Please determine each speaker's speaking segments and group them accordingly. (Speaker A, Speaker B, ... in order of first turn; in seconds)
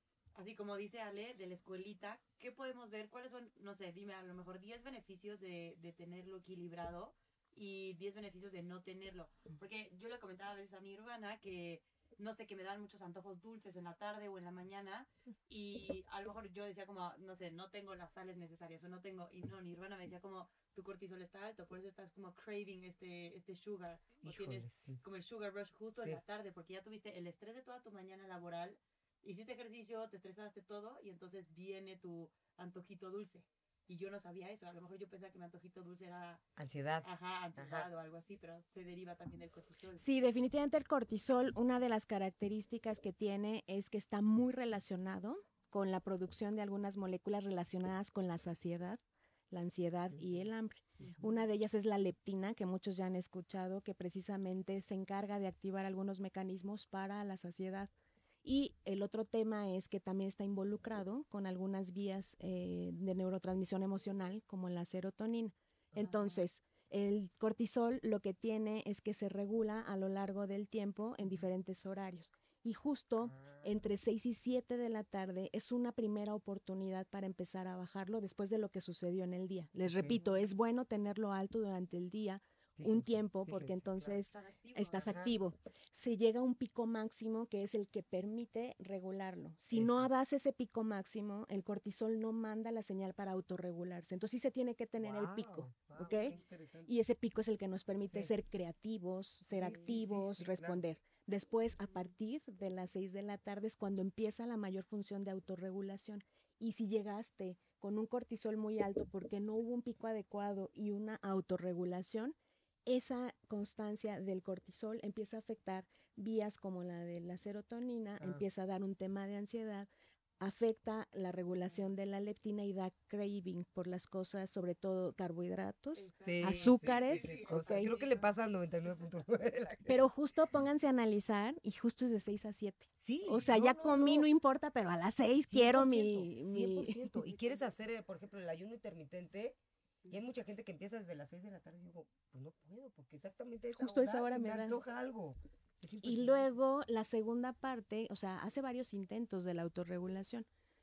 Speaker A: 0.3-36.4, 37.0-40.0, 66.0-66.4, 84.2-85.3, 99.5-100.1, 126.0-128.3, 137.3-137.7
Speaker B: 24.2-25.0, 36.6-37.9, 73.2-73.7, 79.9-80.2, 82.8-84.2, 85.0-85.4, 89.7-90.1, 95.0-96.9, 99.5-100.8, 126.2-130.0, 133.0-134.3, 135.5-146.5
Speaker C: 40.0-57.9, 58.4-96.3, 96.9-119.9, 120.4-127.9, 129.9-137.0, 143.7-144.8, 146.0-150.5